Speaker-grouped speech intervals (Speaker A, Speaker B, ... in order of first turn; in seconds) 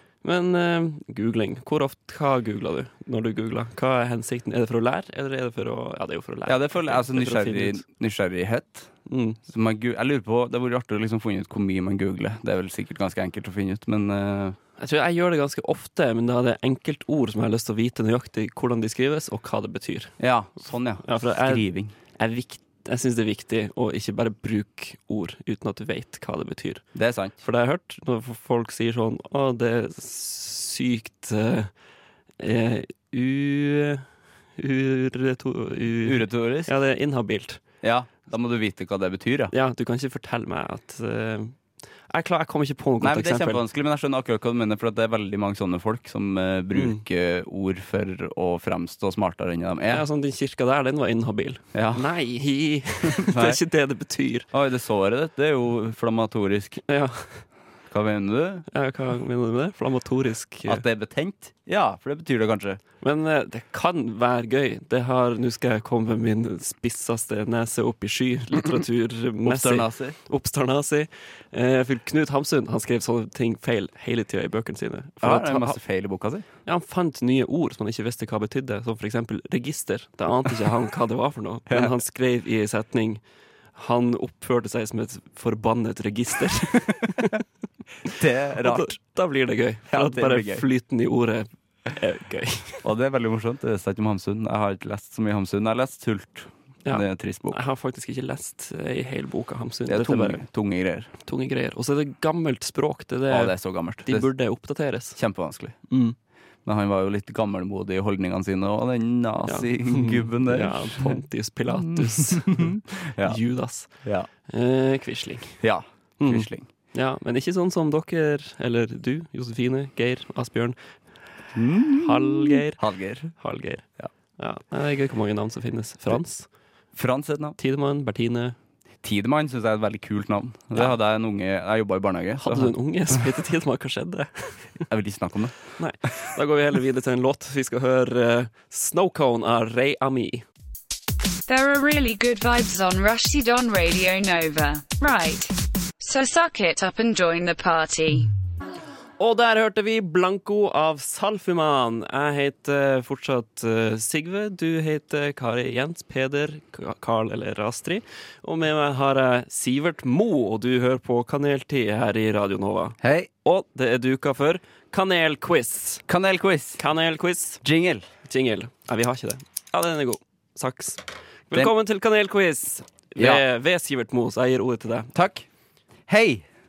Speaker A: 0.2-7.8, 9.1-9.4, 14.8-20.1, 21.0-26.9, 27.4-31.7, 32.4-34.0, 34.6-37.6, 39.5-41.6, 42.1-43.6, 46.8-47.0, 49.9-54.5, 56.9-57.5, 58.7-60.8, 63.0-75.8, 76.7-83.2, 83.8-87.4, 88.6-92.8, 96.8-100.4, 101.2-105.2, 105.9-106.2, 109.5-113.9, 114.5-115.6, 116.2-120.8, 121.9-122.8, 123.3-123.9, 124.4-126.5, 127.6-128.6, 132.4-134.8, 135.8-140.4, 149.2-166.1, 166.8-167.6, 168.2-175.1
Speaker B: 6.5-8.9, 9.5-14.6, 20.2-21.9, 26.9-27.4, 36.0-36.7, 37.8-39.5, 43.0-50.0, 51.7-52.1, 53.1-53.6, 54.5-56.8, 57.9-58.7, 60.7-62.8, 69.4-70.2, 75.2-76.5, 88.0-89.0, 89.9-90.7, 92.8-97.6, 99.9-101.1, 103.3-104.3, 105.2-105.8, 106.7-111.2, 111.7-113.4, 115.6-116.7, 121.5-123.3, 127.0-127.6, 129.0-133.2, 134.8-135.6, 163.0-163.3, 166.1-166.8, 167.6-168.1, 173.2-173.4, 175.1-175.5, 176.1-176.5
Speaker C: 141.5-148.3